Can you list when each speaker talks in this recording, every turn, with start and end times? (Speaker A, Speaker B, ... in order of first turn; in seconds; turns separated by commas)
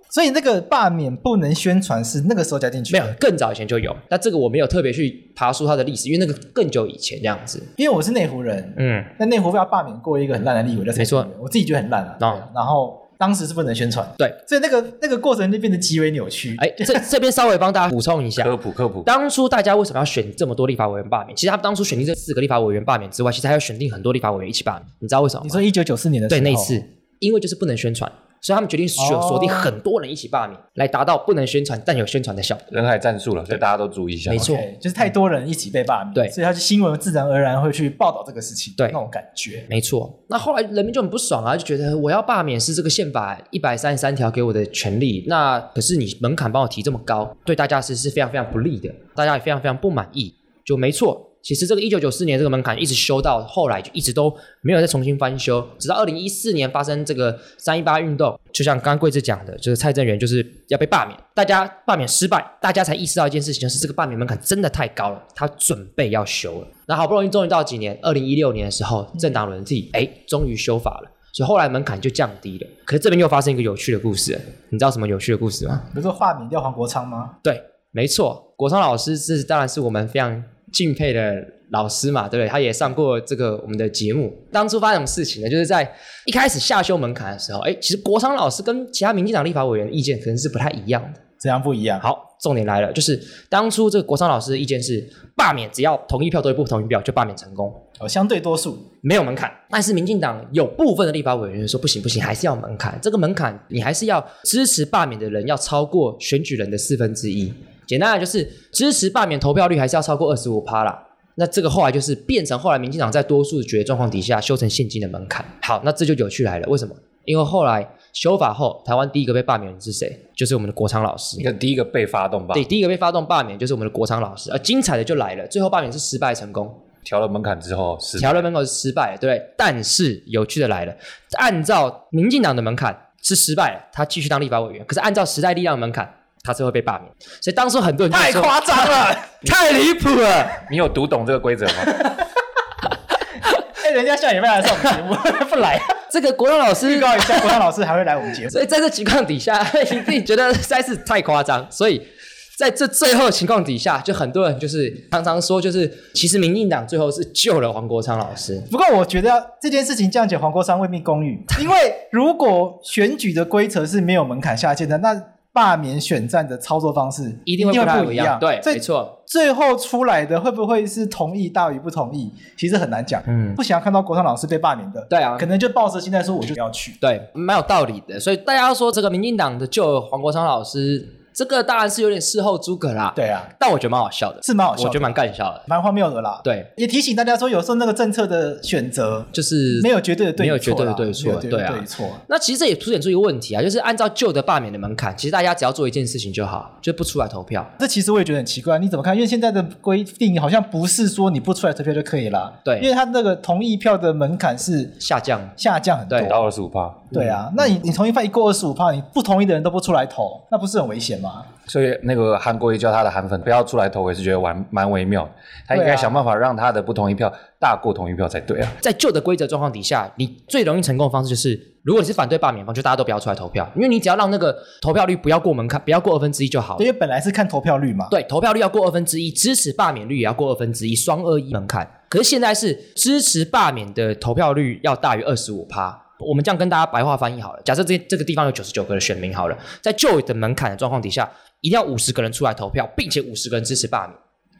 Speaker A: 0.1-3.2, Speaker B: 2.9-7.7, Speaker A: 7.8-17.1, Speaker B: 8.8-9.1, Speaker B: 10.9-11.3, Speaker B: 12.2-12.4, Speaker B: 16.6-18.5, Speaker C: 18.4-19.1, Speaker B: 19.0-25.6, Speaker A: 25.4-26.8, Speaker B: 26.3-32.7, Speaker A: 29.0-29.7, Speaker C: 32.7-34.5, Speaker B: 34.3-34.6, Speaker A: 34.3-39.7, Speaker B: 39.7-75.9, Speaker A: 75.9-77.4, Speaker B: 77.4-91.2, Speaker A: 91.4-92.0, Speaker B: 92.0-97.8, Speaker A: 98.0-98.9, Speaker B: 99.0-121.5, Speaker C: 121.4-122.7, Speaker B: 122.5-126.8, Speaker C: 127.0-128.5, Speaker B: 128.2-140.6, Speaker A: 138.1-139.3, Speaker C: 140.7-142.1, Speaker A: 143.7-145.9, Speaker B: 146.0-147.5, Speaker A: 146.8-148.6, Speaker B: 148.5-152.0, Speaker B: 152.6-158.7, Speaker A: 158.7-177.0, Speaker B: 167.4-169.1, Speaker B: 173.3-173.6, Speaker B: 175.1-175.5, Speaker B: 177.0-185.7, Speaker A: 183.2-183.5, Speaker A: 184.4-192.2, Speaker B: 189.3-197.7, Speaker A: 197.8-205.0, Speaker B: 205.0-205.6, Speaker A: 205.6-206.4, Speaker B: 206.1-206.3, Speaker C: 206.2-207.1, Speaker A: 207.1-211.5, Speaker B: 207.1-207.4, Speaker C: 211.7-218.8, Speaker A: 215.7-216.2, Speaker B: 218.8-226.9, Speaker A: 226.8-228.1, Speaker B: 228.1-244.2